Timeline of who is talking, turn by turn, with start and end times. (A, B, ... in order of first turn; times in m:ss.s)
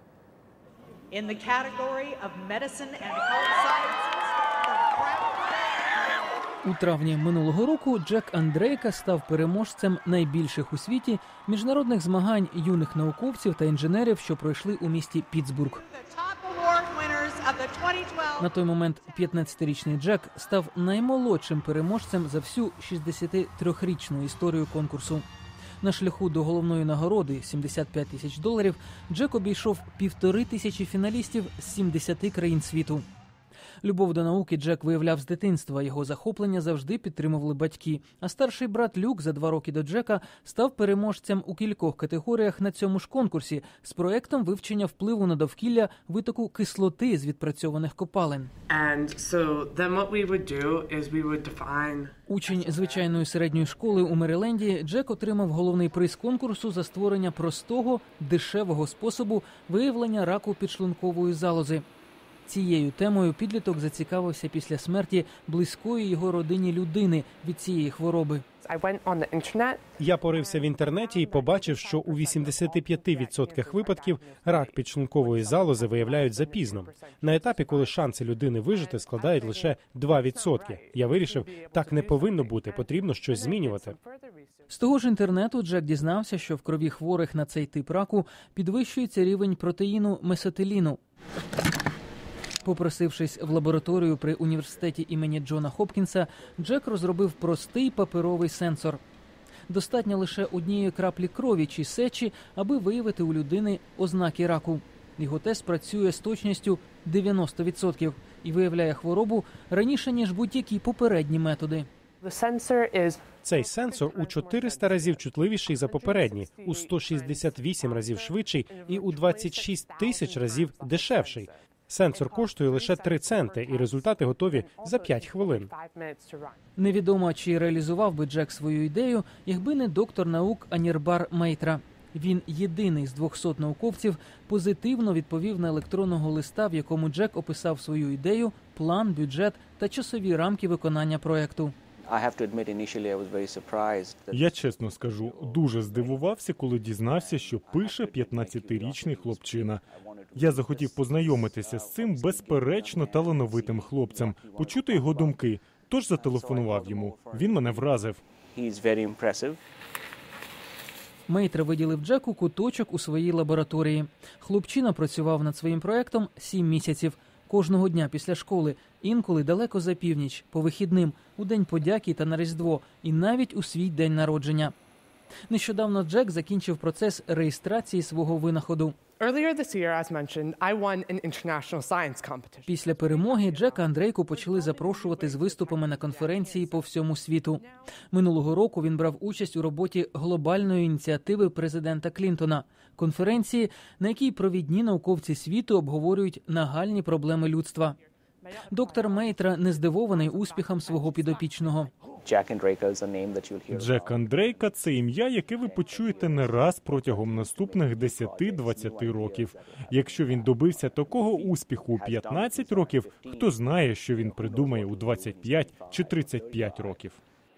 0:01.1-0:05.5 A
0:06.6-0:15.8 B
0:15.8-0:18.5 A
0:18.4-0:25.2 B
0:25.8-0:33.0 B
0:33.8-0:48.5 B
0:48.7-0:52.8 C
0:52.3-1:01.8 B
1:02.4-1:08.4 B
1:08.6-1:18.1 C
1:10.0-1:24.0 D
1:18.7-1:24.7 C
1:24.7-1:31.0 B
1:32.6-1:39.0 B
1:39.7-1:51.9 B
1:52.2-2:06.7 C
1:53.4-2:05.7 D
2:06.8-2:21.7 B
2:22.1-2:26.4 E
2:24.3-2:29.8 F
2:27.0-2:35.4 E
2:30.3-2:38.2 F
2:36.2-2:37.9 E
2:38.5-2:39.6 E
2:41.3-2:54.7 B
2:55.5-2:59.0 B
2:59.2-3:07.9 C
3:02.7-3:18.0 B
3:18.4-3:22.1 C
3:18.7-3:21.9 B
3:22.2-3:37.0 E
3:23.7-3:37.2 F